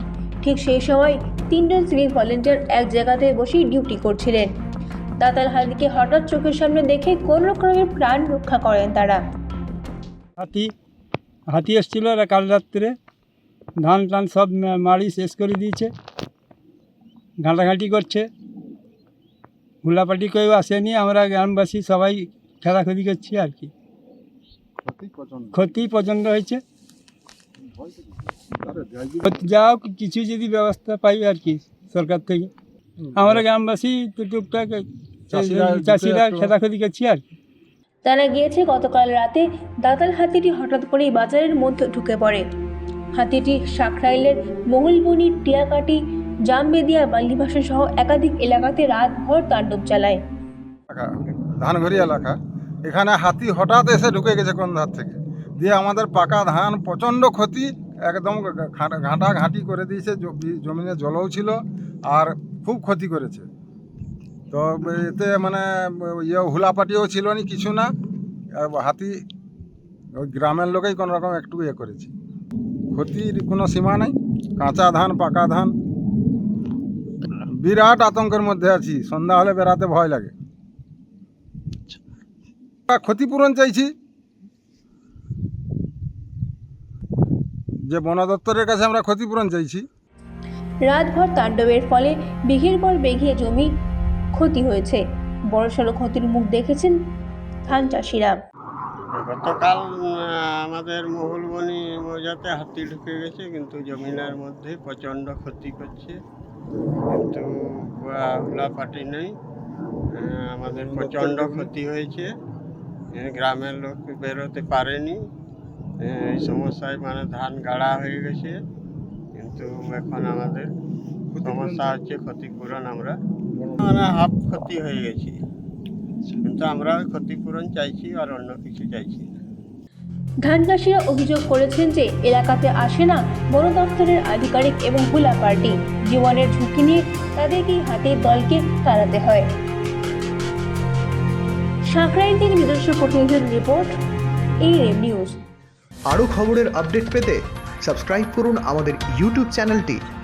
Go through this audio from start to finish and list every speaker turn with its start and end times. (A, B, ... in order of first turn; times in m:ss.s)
0:00.4-0:04.5 A
0:05.2-0:09.2 A
0:10.4-0:10.7 B
0:11.5-0:13.0 B
0:13.8-0:15.9 B
0:17.4-0:18.3 B
0:19.8-0:23.7 B
0:24.8-0:25.7 C
0:25.5-0:26.6 B
0:27.8-0:29.3 C
0:29.2-0:32.5 B
0:33.0-0:33.4 C
0:33.2-0:37.3 B
0:35.3-0:36.5 C
0:38.0-0:42.4 A
0:43.2-0:50.2 A
0:50.9-1:03.5 C
1:04.5-1:07.9 C
1:08.6-1:09.2 C
1:10.2-1:12.1 C
1:12.9-1:15.7 C
1:17.6-1:20.3 C
1:22.9-1:23.9 C
1:27.9-1:29.8 C
1:30.8-1:33.7 A
1:34.3-1:37.0 A
1:37.7-1:38.4 A
1:39.1-1:46.2 D
1:47.1-1:49.3 D
1:50.2-1:52.3 D
1:50.9-1:51.7 C
1:53.2-1:55.2 D
1:56.0-1:58.6 D
1:59.4-2:00.7 D
2:01.3-2:01.9 C
2:01.4-2:03.2 D
2:03.8-2:05.4 D
2:06.4-2:09.3 D
2:10.4-2:19.5 A
2:21.9-2:24.0 A
2:24.6-2:25.4 A
2:26.1-2:30.0 E